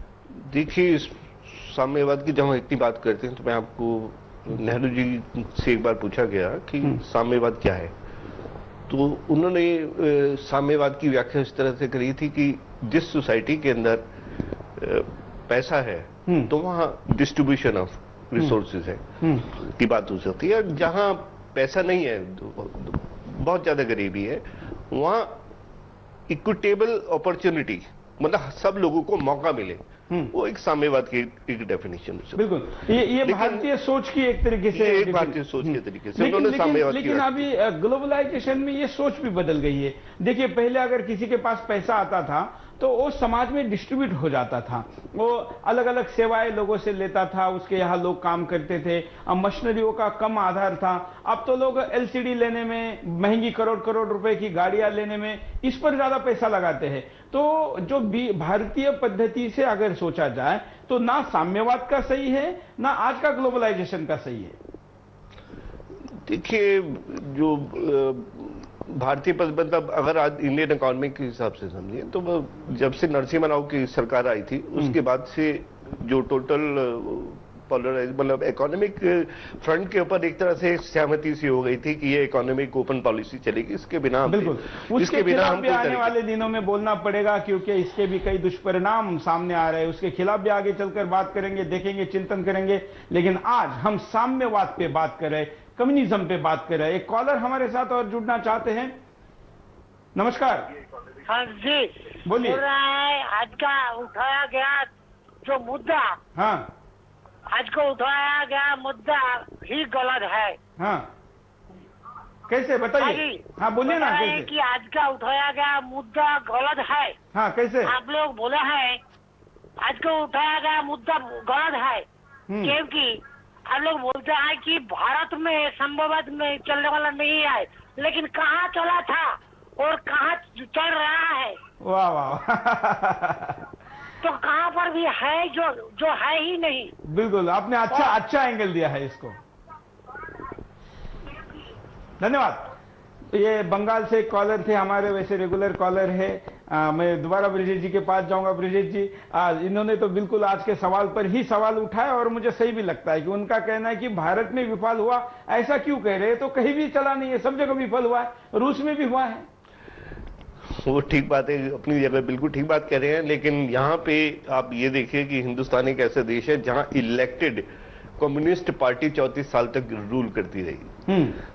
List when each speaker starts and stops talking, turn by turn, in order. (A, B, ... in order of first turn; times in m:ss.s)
0:00.4-0:07.9 A
0:08.9-0:14.0 A
0:14.8-0:25.4 A
0:19.2-0:19.5 B
0:26.3-0:32.4 A
0:32.4-1:04.6 B
0:33.2-0:33.7 A
0:34.7-0:37.5 A
1:06.3-1:26.1 A
1:24.3-1:38.9 B
1:40.2-1:40.6 B
1:41.2-1:44.9 C
1:42.2-1:42.6 B
1:45.4-1:46.2 C
1:46.4-1:46.7 B
1:47.5-1:50.6 C
1:50.8-1:51.1 B
1:52.5-1:54.5 B
1:53.0-1:57.2 C
1:57.3-1:57.9 B
1:57.8-1:59.0 C
1:59.8-2:02.1 C
2:02.5-2:02.8 B
2:02.6-2:11.6 C
2:11.8-2:13.6 B
2:14.2-2:16.9 C
2:17.1-2:19.4 B
2:17.9-2:18.2 C
2:22.2-2:22.7 B
2:23.3-2:39.5 B
2:40.7-2:47.7 A
2:48.2-2:50.9 A
2:51.1-2:51.4 B